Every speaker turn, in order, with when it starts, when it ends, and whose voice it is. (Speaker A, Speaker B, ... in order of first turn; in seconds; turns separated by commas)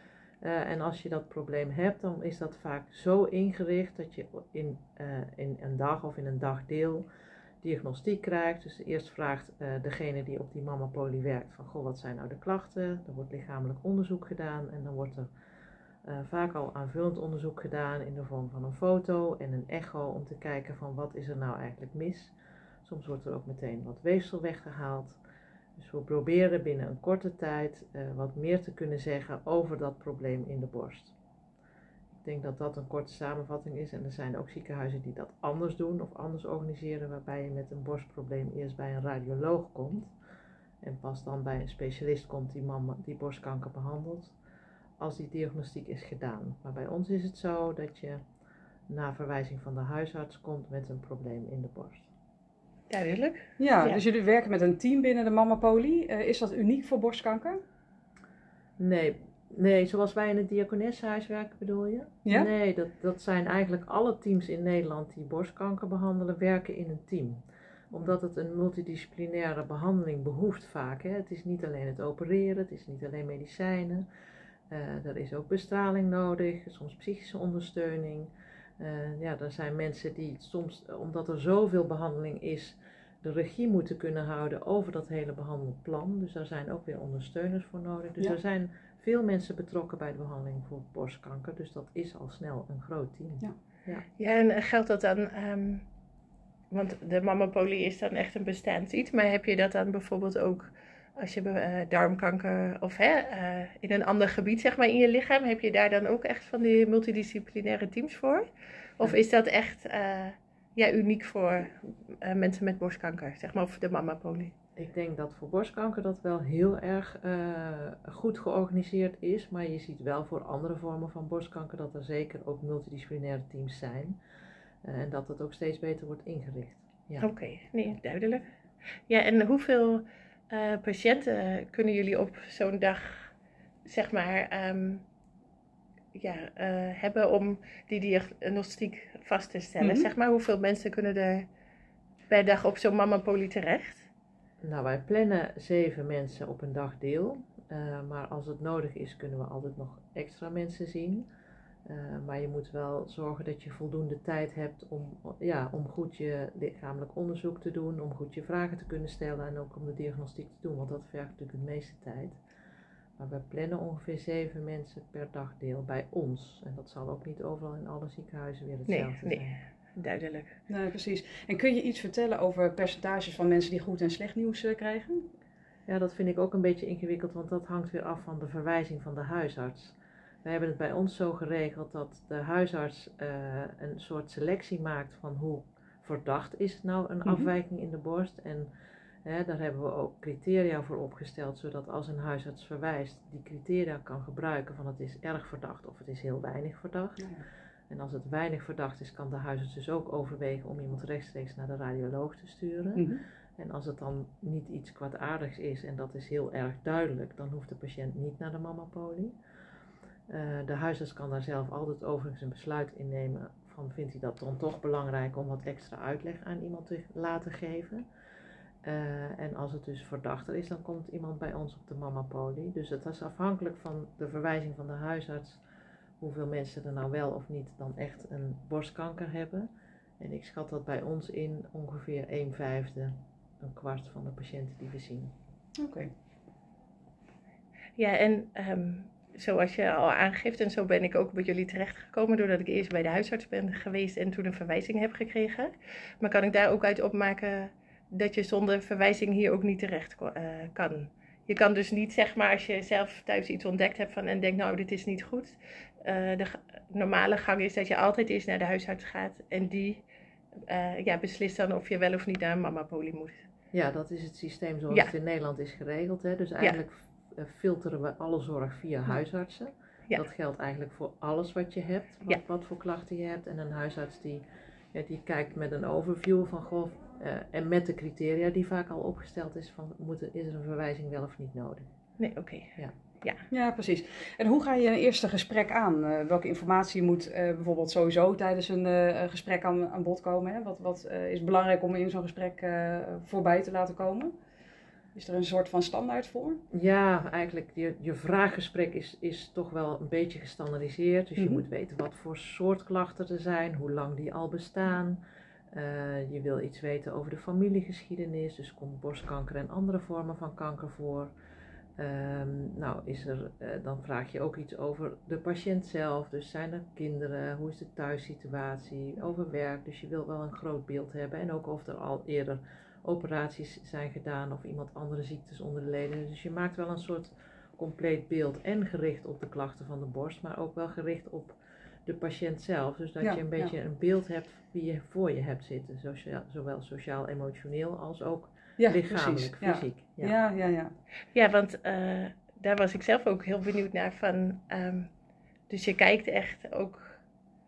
Speaker A: 0.4-7.0, Speaker A: 7.6-15.3, Speaker A: 16.0-22.3, Speaker A: 22.8-25.2, Speaker A: 25.8-31.1, Speaker A: 32.2-40.1, Speaker A: 40.8-44.3, Speaker A: 45.0-48.2, Speaker A: 48.9-52.1, Speaker B: 52.9-54.0, Speaker C: 53.6-57.6, Speaker A: 58.8-74.0, Speaker A: 74.7-94.0, Speaker B: 94.2-95.8, Speaker B: 96.7-108.5, Speaker B: 109.0-114.5, Speaker A: 114.8-124.2, Speaker A: 124.8-127.3, Speaker B: 127.2-128.5, Speaker B: 129.1-133.3, Speaker B: 133.8-135.0, Speaker B: 136.1-141.5, Speaker C: 139.8-140.1, Speaker B: 142.3-144.1, Speaker A: 144.6-151.3, Speaker A: 151.8-162.4, Speaker A: 163.2-169.6, Speaker B: 168.9-170.5, Speaker C: 170.7-175.3, Speaker A: 175.9-188.7, Speaker C: 187.2-187.5, Speaker A: 189.2-197.3, Speaker A: 197.9-209.3, Speaker C: 202.9-203.2, Speaker A: 210.3-218.0, Speaker A: 218.8-225.6, Speaker A: 226.2-235.3, Speaker C: 235.8-236.1, Speaker B: 238.0-260.0, Speaker B: 260.7-263.4, Speaker A: 263.7-281.9, Speaker B: 282.2-283.4, Speaker C: 283.5-294.3, Speaker C: 295.1-296.6, Speaker A: 296.7-311.3, Speaker C: 301.4-301.6, Speaker A: 312.0-340.4, Speaker C: 333.2-333.8, Speaker C: 338.8-340.9, Speaker B: 341.3-345.1, Speaker B: 345.7-347.2